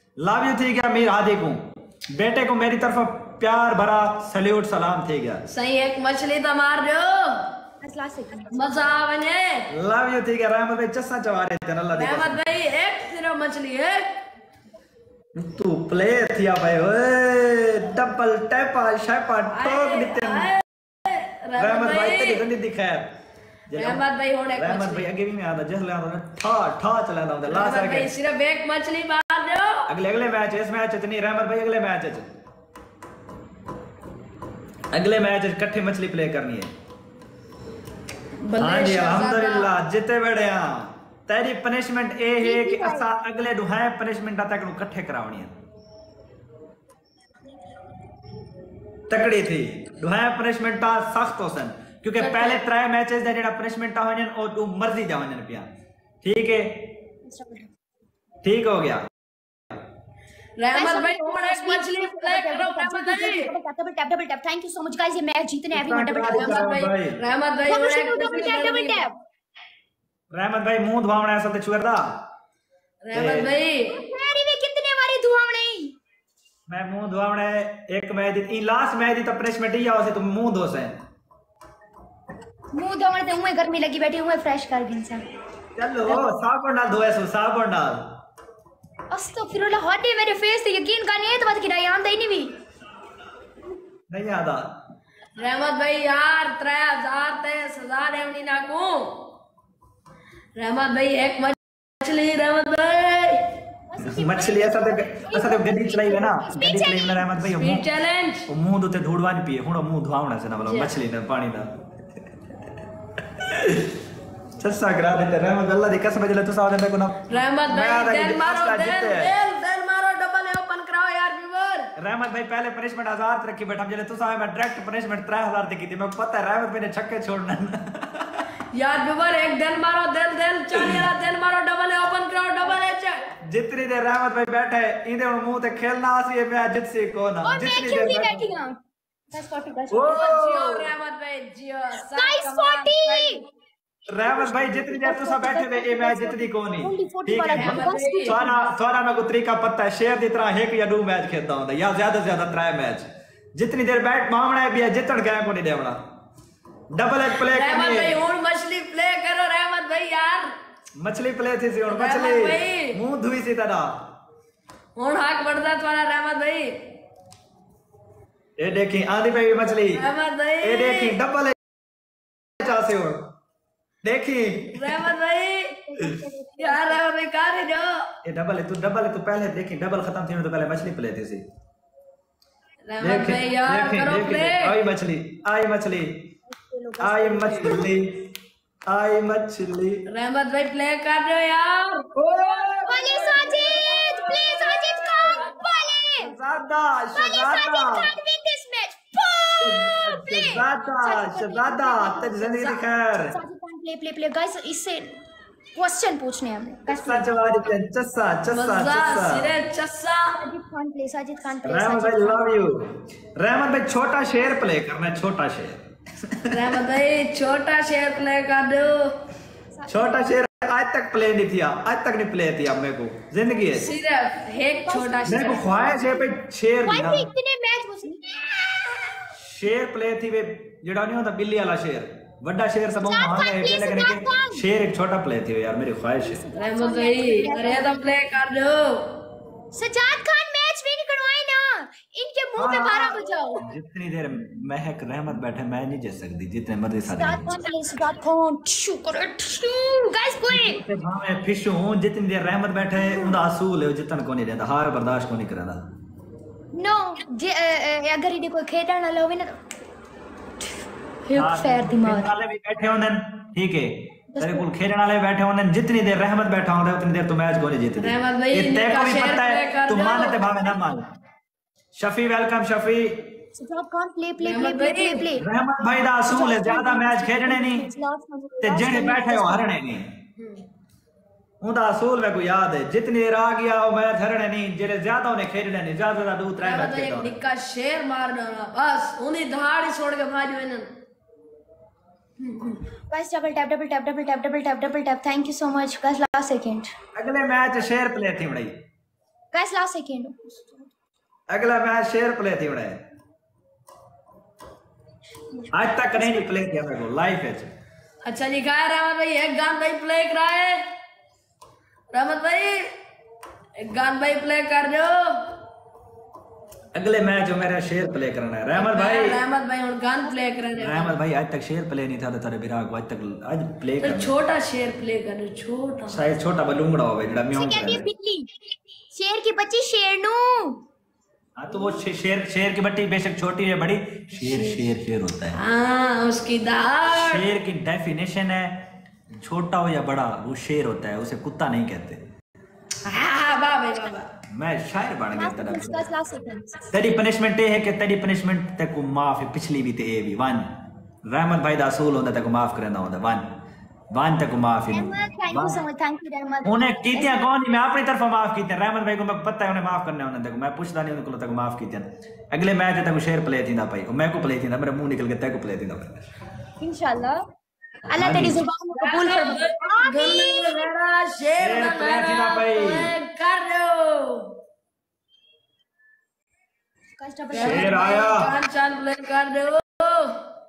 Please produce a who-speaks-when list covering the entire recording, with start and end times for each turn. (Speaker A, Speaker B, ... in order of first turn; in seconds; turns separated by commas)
Speaker A: 0.2-5.4, Speaker B: 5.5-7.5, Speaker C: 7.8-8.6, Speaker B: 8.5-9.7, Speaker A: 9.7-12.4, Speaker B: 11.9-14.1, Speaker A: 15.3-20.5, Speaker B: 19.5-22.4, Speaker A: 21.6-23.1, Speaker A: 23.7-28.1, Speaker B: 23.8-25.1, Speaker B: 27.5-29.9, Speaker A: 29.9-32.3, Speaker A: 34.9-36.7, Speaker B: 38.5-39.7, Speaker A: 38.6-45.5, Speaker C: 42.4-43.1, Speaker A: 49.1-55.7, Speaker B: 52.2-52.6, Speaker A: 56.2-56.8, Speaker C: 57.3-57.7, Speaker A: 58.4-59.0, Speaker B: 60.6-63.5, Speaker C: 60.7-66.7, Speaker A: 65.7-67.2, Speaker B: 66.3-69.1, Speaker C: 67.7-69.2, Speaker A: 70.3-72.1, Speaker B: 73.0-74.0, Speaker A: 73.1-73.5, Speaker C: 73.9-76.0, Speaker A: 76.7-81.0, Speaker C: 82.7-85.2, Speaker A: 85.8-88.0, Speaker C: 89.1-92.5, Speaker A: 94.1-94.7, Speaker B: 95.4-99.2, Speaker B: 100.6-103.4, Speaker C: 103.9-107.3, Speaker A: 104.0-107.9, Speaker B: 107.4-108.5, Speaker A: 108.5-111.7, Speaker B: 110.7-110.9, Speaker A: 113.4-113.9, Speaker A: 114.6-119.3, Speaker B: 117.3-121.9, Speaker A: 122.0-128.4, Speaker B: 128.7-133.2, Speaker A: 133.5-138.4, Speaker C: 137.4-138.8, Speaker C: 139.3-140.3, Speaker A: 139.9-140.9, Speaker B: 140.1-143.5, Speaker C: 142.0-143.4, Speaker A: 144.1-156.0, Speaker C: 144.2-148.5, Speaker B: 147.5-148.4, Speaker A: 156.9-158.2, Speaker B: 157.5-160.5, Speaker A: 161.0-163.9, Speaker B: 161.9-163.0, Speaker B: 165.0-166.8, Speaker A: 168.6-170.0, Speaker B: 169.8-171.2, Speaker A: 170.6-171.6, Speaker A: 172.6-173.2, Speaker A: 174.0-175.1, Speaker B: 174.7-175.8, Speaker C: 175.9-177.0, Speaker B: 176.6-178.1, Speaker A: 178.2-181.4, Speaker B: 182.9-184.7, Speaker A: 183.0-186.2, Speaker C: 186.5-187.9, Speaker A: 187.0-188.2, Speaker A: 188.9-190.0, Speaker B: 190.1-192.1, Speaker A: 192.2-194.8, Speaker C: 192.8-196.3, Speaker A: 196.2-198.1, Speaker C: 197.1-205.2, Speaker A: 199.6-203.4, Speaker C: 205.8-207.7, Speaker A: 206.9-209.5, Speaker B: 208.5-210.4, Speaker C: 210.3-212.5, Speaker A: 211.7-216.7, Speaker B: 216.5-219.1, Speaker C: 219.8-220.2, Speaker A: 219.9-223.9, Speaker C: 223.7-224.0, Speaker B: 223.8-225.7, Speaker C: 224.8-229.1, Speaker A: 225.3-227.3, Speaker A: 229.4-236.4, Speaker C: 233.0-234.6, Speaker C: 236.2-238.1, Speaker B: 236.6-239.1, Speaker C: 239.7-243.6, Speaker A: 242.6-247.5, Speaker C: 247.1-250.8, Speaker A: 250.5-255.8, Speaker C: 253.0-253.4, Speaker C: 256.7-259.6, Speaker C: 261.2-262.3, Speaker A: 261.4-271.1, Speaker C: 264.3-264.7, Speaker B: 268.0-270.4, Speaker A: 272.0-273.2, Speaker C: 273.6-275.4, Speaker B: 274.4-275.3, Speaker A: 275.4-277.9, Speaker C: 276.3-279.7, Speaker A: 278.6-280.1, Speaker B: 280.4-280.6, Speaker A: 281.6-287.4, Speaker B: 286.6-290.9, Speaker B: 292.4-292.8, Speaker C: 293.1-296.9, Speaker A: 297.1-298.7, Speaker C: 299.5-300.9, Speaker A: 301.5-303.0, Speaker A: 305.7-307.7, Speaker C: 306.1-306.4, Speaker B: 308.2-310.8, Speaker B: 312.1-312.9, Speaker B: 313.8-315.5, Speaker A: 316.9-319.4, Speaker B: 318.7-321.1, Speaker C: 320.2-320.6, Speaker A: 320.8-324.3, Speaker B: 324.0-326.2, Speaker A: 326.1-328.1, Speaker C: 327.5-328.5, Speaker C: 329.1-330.8, Speaker A: 331.6-335.6, Speaker B: 334.4-334.9, Speaker B: 335.6-337.5, Speaker A: 337.1-338.8, Speaker A: 339.4-342.2, Speaker B: 343.1-344.3, Speaker A: 344.5-346.1, Speaker C: 345.3-346.9, Speaker A: 346.9-350.6, Speaker A: 351.3-353.4, Speaker A: 354.1-355.8, Speaker C: 354.9-357.4, Speaker A: 356.6-366.2, Speaker C: 366.8-367.4, Speaker C: 368.1-370.9, Speaker A: 368.2-368.6, Speaker B: 368.9-374.5, Speaker A: 371.6-373.1, Speaker C: 377.2-378.1, Speaker B: 377.5-380.4, Speaker A: 377.6-378.5